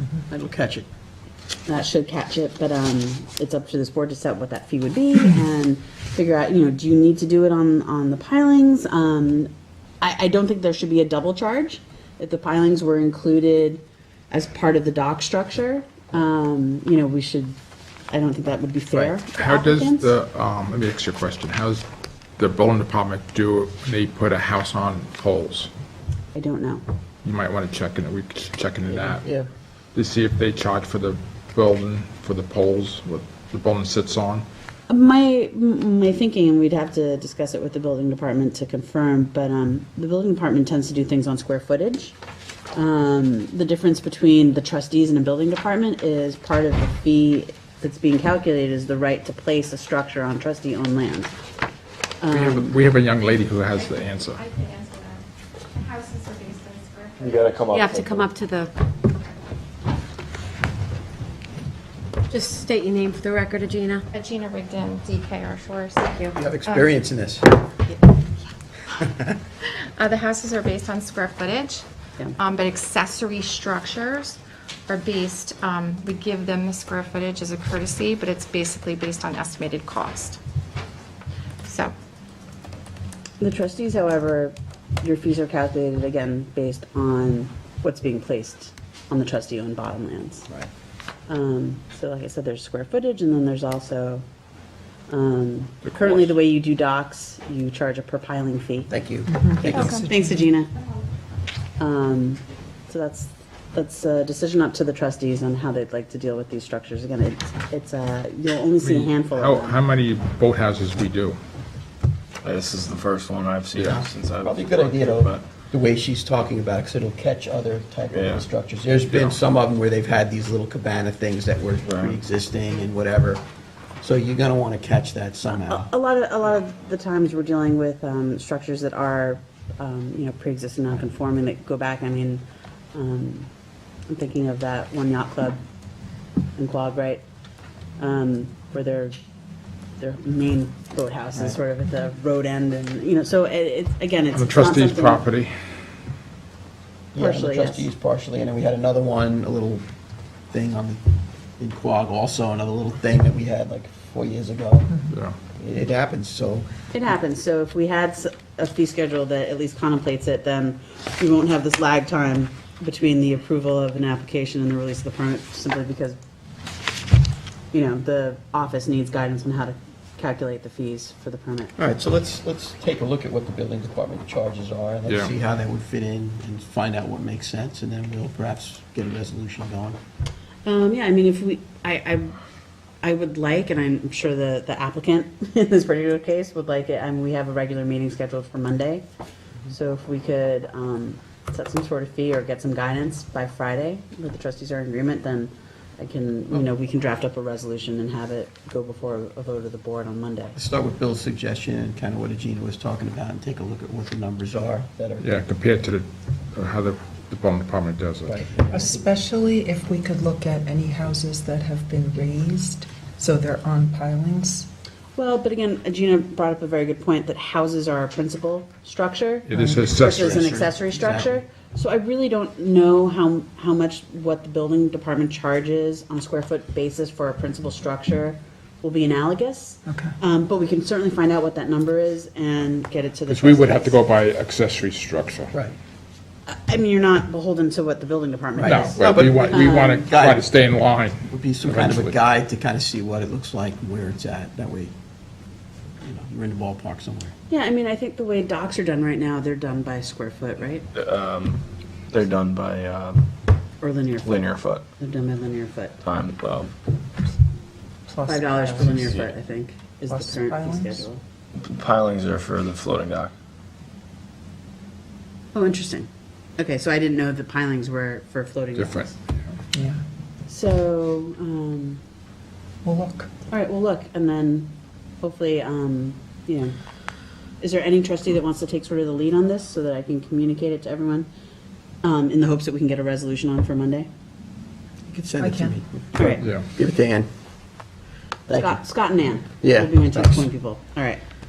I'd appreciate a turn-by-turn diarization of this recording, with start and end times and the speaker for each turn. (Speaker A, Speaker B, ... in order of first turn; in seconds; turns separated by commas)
Speaker A: 0.3-0.9, Speaker B: 1.6-17.6, Speaker B: 18.1-20.1, Speaker C: 19.3-21.8, Speaker C: 22.4-25.7, Speaker B: 26.3-26.8, Speaker C: 27.2-29.3, Speaker A: 29.1-29.5, Speaker C: 29.9-34.5, Speaker B: 34.9-42.2, Speaker B: 42.7-51.3, Speaker B: 52.2-52.8, Speaker C: 52.3-54.4, Speaker D: 53.7-57.7, Speaker E: 57.2-58.3, Speaker F: 57.7-58.7, Speaker F: 62.3-64.0, Speaker D: 64.1-66.9, Speaker A: 66.3-67.5, Speaker A: 69.0-69.3, Speaker D: 69.7-71.8, Speaker D: 72.3-80.4, Speaker D: 81.6-81.9, Speaker B: 83.4-90.5, Speaker B: 91.3-94.2, Speaker B: 95.1-98.9, Speaker A: 98.9-99.9, Speaker G: 99.3-100.3, Speaker B: 99.6-100.7, Speaker D: 99.7-100.1, Speaker B: 101.8-109.8, Speaker C: 108.8-111.4, Speaker E: 112.4-115.4, Speaker C: 113.8-114.0, Speaker A: 113.8-123.4, Speaker E: 118.1-118.5, Speaker C: 119.1-119.3, Speaker E: 121.8-122.2, Speaker A: 124.0-125.9, Speaker B: 125.5-133.5, Speaker B: 134.1-135.6, Speaker B: 136.6-137.2, Speaker B: 138.0-139.2, Speaker B: 140.0-145.2, Speaker C: 144.3-145.6, Speaker A: 147.1-149.8, Speaker B: 147.2-147.9, Speaker A: 150.5-151.0, Speaker A: 151.6-154.9, Speaker C: 155.1-155.4, Speaker A: 155.6-156.7, Speaker B: 156.9-166.2, Speaker B: 167.7-171.8, Speaker A: 171.8-180.0, Speaker B: 180.7-182.4, Speaker B: 183.0-189.1, Speaker B: 189.7-200.6, Speaker A: 200.6-205.4, Speaker C: 205.2-208.4, Speaker A: 208.2-209.0, Speaker G: 208.7-214.7, Speaker B: 215.2-234.0, Speaker C: 219.5-220.4, Speaker G: 219.5-219.9, Speaker A: 219.9-221.4, Speaker G: 229.9-230.1, Speaker C: 233.3-235.5, Speaker B: 236.5-240.1, Speaker A: 238.6-240.5, Speaker C: 238.6-242.2, Speaker A: 241.3-244.9, Speaker A: 246.0-247.3, Speaker B: 247.5-250.8, Speaker E: 250.9-253.3, Speaker B: 253.8-256.0, Speaker E: 254.2-254.8, Speaker E: 256.0-256.7, Speaker G: 258.1-259.2, Speaker B: 258.2-261.2, Speaker G: 260.1-261.1, Speaker E: 261.6-263.3, Speaker B: 265.5-269.1, Speaker C: 268.8-269.6, Speaker G: 269.7-270.0, Speaker B: 270.5-272.0, Speaker G: 272.8-273.3, Speaker B: 273.5-276.8, Speaker B: 277.6-281.3, Speaker B: 282.0-284.1, Speaker A: 285.1-287.3, Speaker G: 285.4-285.8, Speaker B: 286.2-286.4, Speaker C: 286.4-286.7, Speaker A: 288.5-288.8, Speaker B: 288.5-291.2, Speaker A: 289.6-290.5